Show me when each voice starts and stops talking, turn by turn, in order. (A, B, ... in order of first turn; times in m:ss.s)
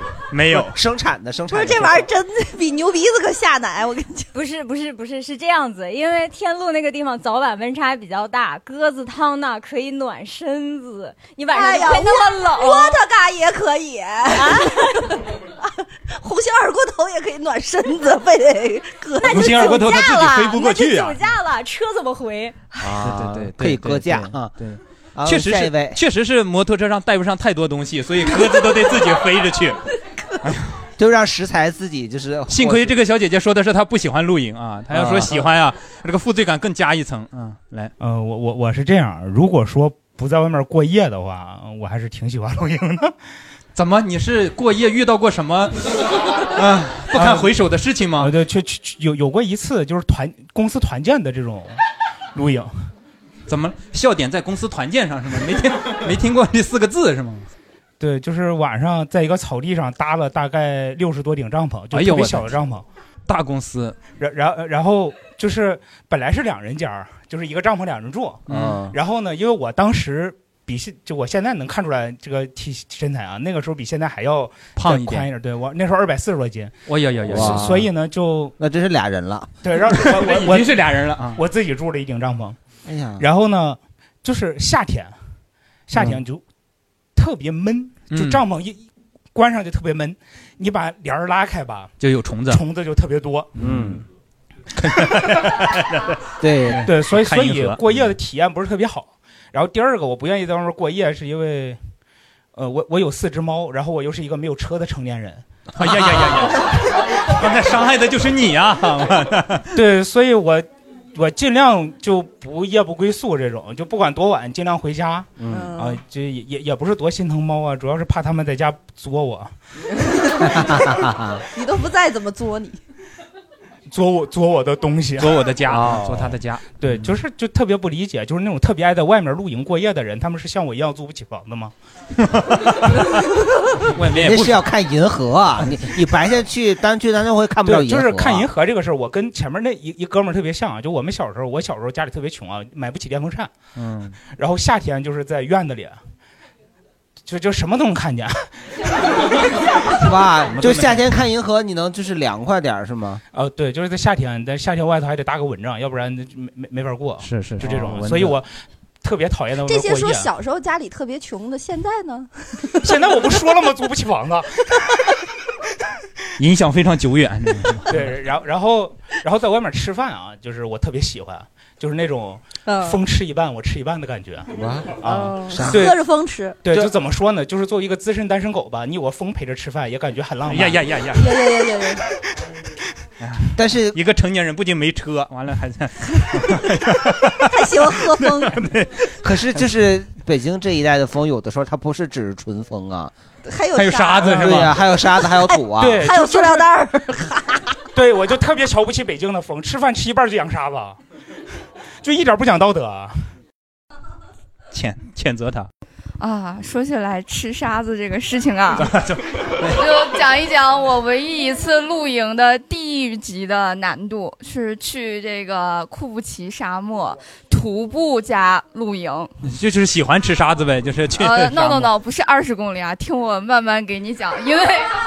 0:00.3-0:00.8 A
0:00.5-0:02.1 B
0:01.5-0:04.3 C
0:04.3-0:13.0 D
0:11.5-0:14.8 C
0:14.3-0:15.0 D
0:16.2-0:19.8 C
0:19.2-0:22.6 D
0:19.3-0:21.2 A
0:22.8-0:24.5 B
0:22.9-0:29.8 A
0:25.2-0:26.0 B
0:30.4-0:30.7 A
0:31.0-0:32.9 B
0:32.5-0:37.9 A
0:34.9-0:35.5 B
0:38.0-0:43.1 E
0:43.8-0:48.3 A
0:47.1-0:47.5 E
0:48.2-0:51.8 E
0:52.4-0:52.7 E
0:53.5-0:57.5 A
0:58.0-1:02.8 E
1:01.9-1:02.5 A
1:03.3-1:04.0 A
1:04.2-1:16.8 E
1:08.5-1:08.8 A
1:08.5-1:09.0 B
1:14.8-1:15.3 A
1:16.9-1:17.8 A
1:17.3-1:17.9 B
1:17.3-1:18.6 E
1:18.6-1:19.5 B
1:19.6-1:20.8 E
1:20.0-1:21.4 A
1:21.3-1:22.6 E
1:22.8-1:23.3 B
1:23.2-1:25.1 E
1:25.9-1:26.4 E
1:25.9-1:26.2 A
1:27.2-1:31.9 E
1:28.1-1:28.4 A
1:32.0-1:32.6 A
1:32.5-1:33.5 E
1:33.6-1:34.0 A
1:33.6-1:34.0 B
1:34.8-1:38.0 A
1:36.4-1:36.9 B
1:36.8-1:41.8 E
1:42.6-1:45.4 E
1:45.8-1:46.7 A
1:45.8-1:46.5 B
1:47.2-1:49.7 A
1:49.7-1:59.5 E
1:55.4-1:55.7 B
1:55.5-1:56.0 C
2:00.0-2:00.4 C
2:00.5-2:01.4 B
2:01.5-2:02.8 C
2:03.9-2:05.4 E
2:05.2-2:07.1 A
2:05.7-2:06.4 B
2:06.8-2:11.7 E
2:12.2-2:13.1 A
2:13.9-2:14.6 A
2:14.1-2:18.5 B
2:17.6-2:23.5 E
2:23.8-2:24.2 A
2:24.3-2:26.0 E
2:27.3-2:28.5 E
2:30.0-2:33.2 B
2:30.5-2:31.1 A
2:33.3-2:38.5 E
2:37.2-2:38.4 A
2:39.0-2:40.3 E
2:39.6-2:43.4 C
2:42.8-2:44.5 E
2:46.4-2:48.1 A
2:47.9-2:54.5 E
2:52.7-2:53.0 C
2:54.6-2:55.8 B
2:55.0-2:56.0 E
2:55.0-2:56.6 C
2:56.6-3:00.8 E
3:00.5-3:01.4 A
3:01.1-3:02.0 C
3:03.2-3:09.0 A
3:03.6-3:04.0 B
3:07.5-3:08.6 C
3:09.2-3:13.1 B
3:13.4-3:14.5 C
3:13.8-3:14.8 A
3:14.3-3:16.1 B
3:15.2-3:17.8 C
3:15.8-3:16.6 E
3:17.9-3:21.0 E
3:22.0-3:23.2 E
3:24.7-3:25.7 A
3:26.2-3:28.9 F
3:28.8-3:29.9 A
3:29.7-3:39.3 F
3:39.4-3:41.9 A
3:41.2-3:44.9 F